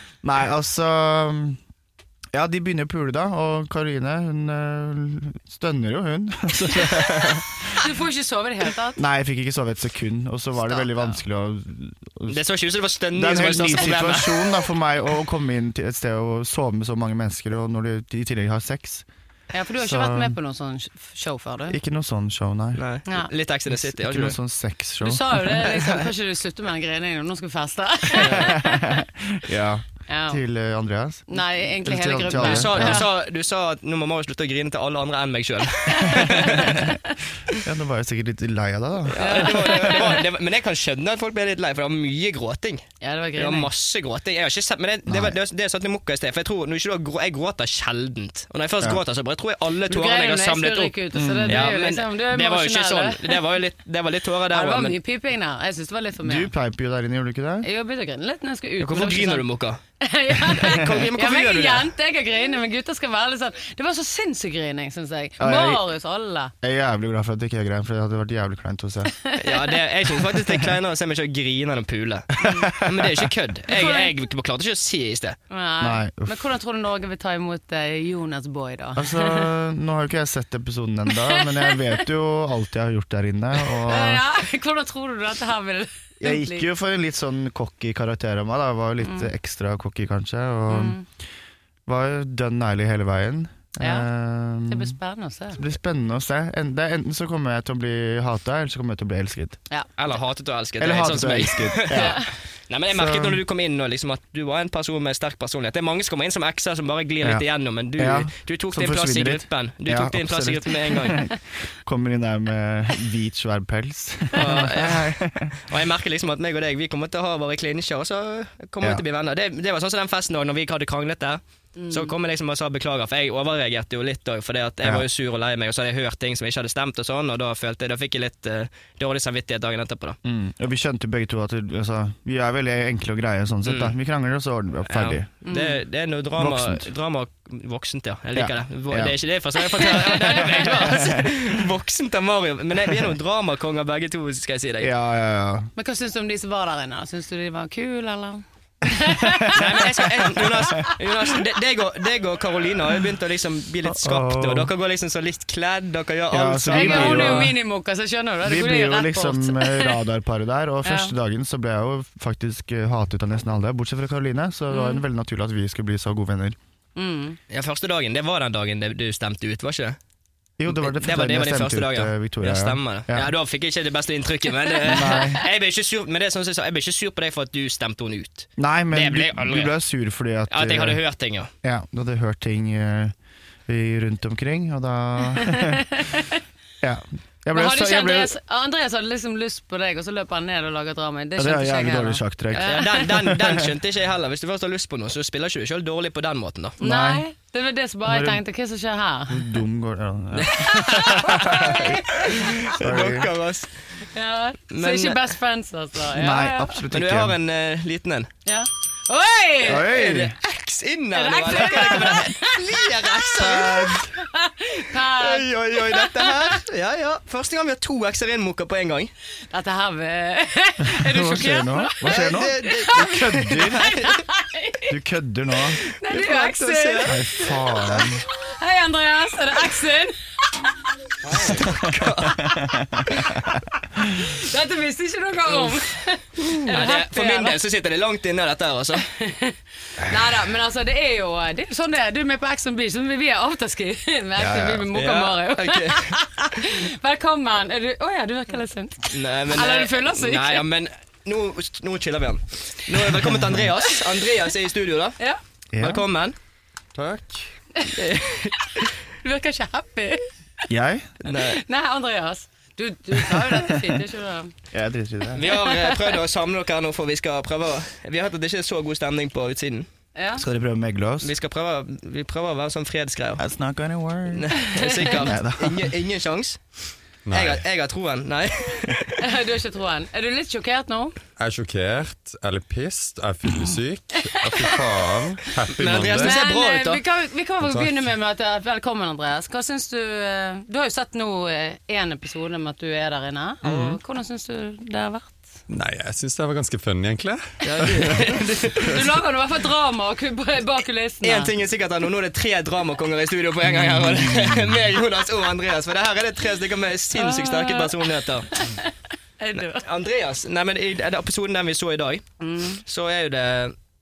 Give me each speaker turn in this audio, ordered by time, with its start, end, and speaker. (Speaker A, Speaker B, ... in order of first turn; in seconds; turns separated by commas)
Speaker A: 0.2-1.6, Speaker A: 2.3-7.8, Speaker B: 7.8-9.0, Speaker A: 9.0-12.4, Speaker B: 10.7-11.1, Speaker C: 12.3-14.5, Speaker A: 13.1-19.1, Speaker B: 19.5-21.8, Speaker A: 19.8-20.4, Speaker A: 21.7-22.8, Speaker C: 22.8-24.4, Speaker A: 23.7-26.0, Speaker B: 25.0-29.0, Speaker C: 28.1-28.5, Speaker A: 28.2-33.0, Speaker B: 30.1-30.4, Speaker B: 31.3-33.0, Speaker C: 32.3-36.9, Speaker B: 35.9-36.8, Speaker A: 36.0-40.1, Speaker C: 39.1-51.0, Speaker B: 39.2-40.2, Speaker B: 43.0-43.7, Speaker A: 45.1-45.4, Speaker B: 49.9-53.4, Speaker A: 51.1-51.7, Speaker C: 51.5-55.0, Speaker B: 54.5-56.5, Speaker A: 56.2-57.7, Speaker B: 57.6-59.5, Speaker C: 58.8-59.8, Speaker B: 60.0-66.5, Speaker C: 60.4-61.9, Speaker A: 65.4-65.8, Speaker A: 66.6-69.1, Speaker B: 69.1-69.8, Speaker C: 69.4-75.4, Speaker A: 70.3-70.7, Speaker B: 72.4-72.7, Speaker A: 72.5-73.3, Speaker B: 73.7-74.1, Speaker B: 75.5-79.5, Speaker A: 75.8-76.4, Speaker A: 79.0-84.2, Speaker B: 81.3-81.8, Speaker B: 83.8-86.7, Speaker A: 86.2-91.0, Speaker B: 89.0-89.3, Speaker B: 90.7-91.0, Speaker A: 91.8-94.9, Speaker B: 93.8-94.1, Speaker B: 94.7-95.6, Speaker A: 95.5-99.6, Speaker C: 100.0-111.2, Speaker A: 100.8-102.2, Speaker B: 102.0-102.3, Speaker A: 102.9-103.4, Speaker A: 108.0-115.6, Speaker C: 114.3-130.2, Speaker B: 121.8-122.1, Speaker A: 130.2-135.3, Speaker C: 133.6-133.9, Speaker C: 134.9-144.9, Speaker B: 135.4-135.8, Speaker A: 136.4-136.8, Speaker A: 138.3-139.2, Speaker B: 140.3-140.5, Speaker A: 140.3-141.3, Speaker A: 144.8-145.7, Speaker B: 145.8-151.0, Speaker A: 149.0-149.6, Speaker C: 149.5-157.5, Speaker A: 150.2-150.9, Speaker A: 153.8-154.7, Speaker A: 156.3-157.6, Speaker B: 156.7-160.0, Speaker A: 158.4-166.6, Speaker B: 160.8-161.1, Speaker B: 164.7-165.0, Speaker B: 166.9-167.4, Speaker C: 167.5-170.0, Speaker A: 170.6-173.3, Speaker C: 170.7-179.7, Speaker A: 174.8-175.4, Speaker B: 174.9-175.2, Speaker A: 178.6-181.0, Speaker C: 180.5-181.5, Speaker A: 181.6-183.1, Speaker A: 183.7-186.0, Speaker B: 185.4-186.4, Speaker A: 186.8-188.3, Speaker B: 187.5-193.0, Speaker A: 191.4-193.6, Speaker C: 192.6-196.8, Speaker A: 196.8-197.2, Speaker B: 196.8-199.5, Speaker A: 198.1-198.4, Speaker A: 199.3-203.3, Speaker C: 200.3-201.8, Speaker B: 200.5-202.7, Speaker C: 202.3-203.7, Speaker B: 204.1-206.8, Speaker C: 204.7-205.2, Speaker A: 206.1-207.4, Speaker C: 206.9-208.3, Speaker B: 208.4-210.0, Speaker A: 209.6-210.4, Speaker C: 209.8-213.9, Speaker B: 211.1-216.6, Speaker A: 213.4-214.1, Speaker C: 215.1-219.1, Speaker B: 219.5-224.9, Speaker A: 220.9-224.1, Speaker C: 222.0-224.2, Speaker A: 224.9-225.8, Speaker B: 225.8-230.1, Speaker C: 226.1-227.2, Speaker A: 227.0-228.2, Speaker C: 231.2-232.4, Speaker A: 231.5-233.6, Speaker B: 232.4-232.7, Speaker B: 234.2-237.6, Speaker C: 236.5-239.1, Speaker B: 239.1-250.6, Speaker A: 244.4-244.9, Speaker C: 244.9-246.2, Speaker C: 249.1-255.2, Speaker A: 255.7-256.1, Speaker C: 255.8-256.3, Speaker D: 256.9-257.5, Speaker C: 257.9-258.8, Speaker B: 258.7-260.2, Speaker A: 260.7-261.1, Speaker C: 261.2-261.6, Speaker B: 261.3-264.5, Speaker A: 263.2-263.9, Speaker A: 264.7-265.4, Speaker C: 265.4-269.9, Speaker B: 265.4-266.2, Speaker B: 270.1-270.4, Speaker A: 270.4-271.3, Speaker C: 271.2-273.4, Speaker A: 273.4-275.9, Speaker C: 274.3-276.6, Speaker B: 274.7-275.2, Speaker D: 277.2-277.6, Speaker C: 277.3-279.2, Speaker B: 279.2-281.1, Speaker D: 281.4-286.4, Speaker C: 285.8-287.0, Speaker B: 286.1-295.4, Speaker D: 287.6-288.1, Speaker D: 293.6-294.0, Speaker D: 295.7-299.0, Speaker C: 297.6-299.0, Speaker B: 298.7-301.5, Speaker C: 301.2-308.5, Speaker A: 303.7-304.6, Speaker B: 307.1-309.8, Speaker C: 309.6-312.2, Speaker B: 312.4-312.8, Speaker C: 312.8-313.7